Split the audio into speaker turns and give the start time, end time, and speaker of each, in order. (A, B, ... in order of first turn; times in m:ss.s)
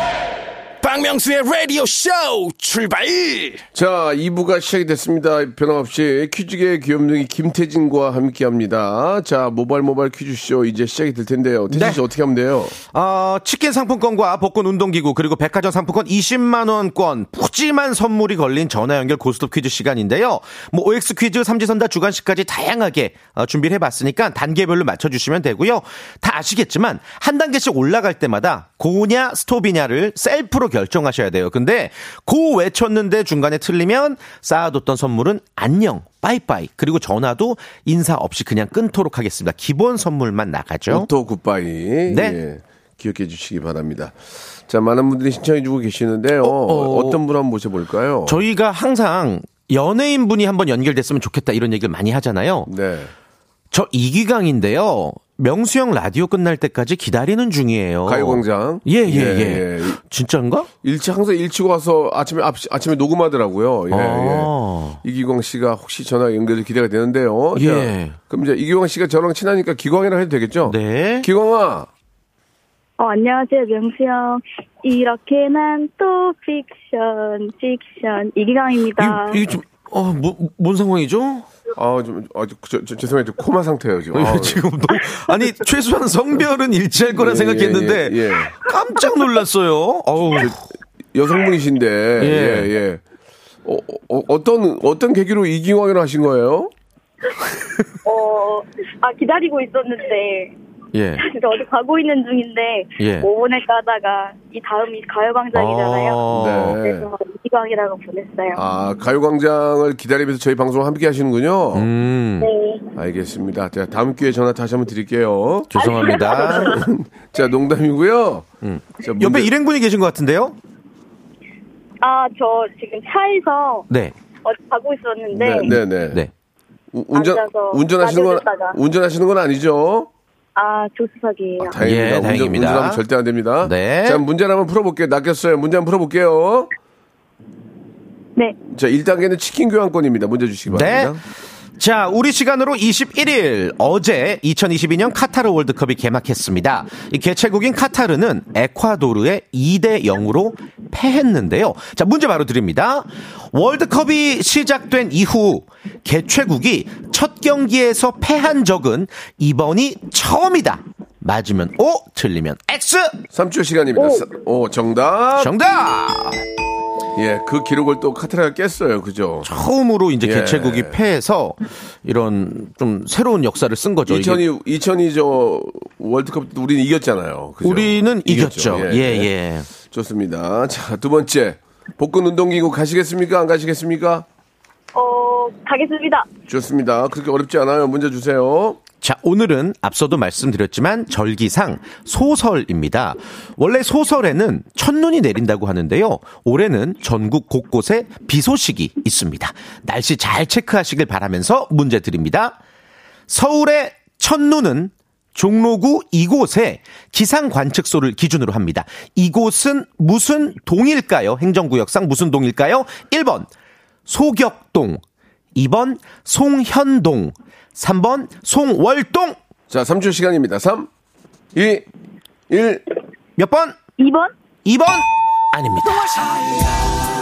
0:00.8-0:03.6 A
0:03.7-0:12.8 B
0:11.7-0:12.0 C
0:12.9-0:41.1 C
0:40.9-0:48.4 B
0:42.1-0:42.4 C
0:46.4-0:47.2 C
0:48.3-0:52.7 C
0:52.7-0:53.1 B
0:53.7-1:00.7 C
0:58.0-1:00.0 B
1:00.8-1:11.9 B
1:03.9-1:05.0 C
1:07.6-1:08.2 C
1:10.6-1:11.3 C
1:13.0-1:19.4 D
1:19.0-1:21.4 C
1:21.8-1:24.6 B
1:24.1-1:30.6 C
1:27.1-1:28.5 B
1:31.1-1:33.0 B
1:32.2-1:32.7 C
1:33.6-1:36.7 B
1:38.0-1:40.6 D
1:40.9-1:41.2 C
1:41.2-1:46.2 D
1:43.0-1:43.3 C
1:45.5-1:46.8 C
1:46.3-1:47.1 B
1:46.8-1:48.6 D
1:48.6-1:51.9 B
1:51.7-1:52.5 C
1:52.4-1:52.8 D
1:53.0-1:58.5 B
1:55.7-1:56.8 C
1:55.8-1:56.8 D
1:58.6-2:00.6 C
1:59.0-1:59.5 B
2:02.0-2:03.9 D
2:04.4-2:05.7 D
2:05.3-2:06.2 B
2:05.6-2:06.3 C
2:06.9-2:10.1 B
2:07.1-2:08.8 D
2:10.6-2:11.8 D
2:11.6-2:16.7 B
2:11.8-2:13.0 C
2:13.6-2:14.2 C
2:18.7-2:21.2 B
2:20.7-2:21.1 C
2:21.8-2:43.2 C
2:43.3-2:45.5 B
2:45.4-2:46.4 C
2:47.1-2:49.5 B
2:49.4-2:54.4 C
2:50.2-2:51.0 B
2:54.1-2:59.3 B
2:57.6-2:59.7 C
2:59.8-3:04.3 B
3:04.9-3:06.3 D
3:06.5-3:08.8 B
3:09.0-3:22.6 C
3:23.3-3:33.5 C
3:34.1-3:35.0 C
3:35.6-3:39.4 C
3:39.7-3:40.9 B
3:41.6-3:41.9 B
3:42.5-3:42.8 B
3:43.4-3:43.8 C
3:44.0-3:44.3 D
3:44.6-3:46.3 C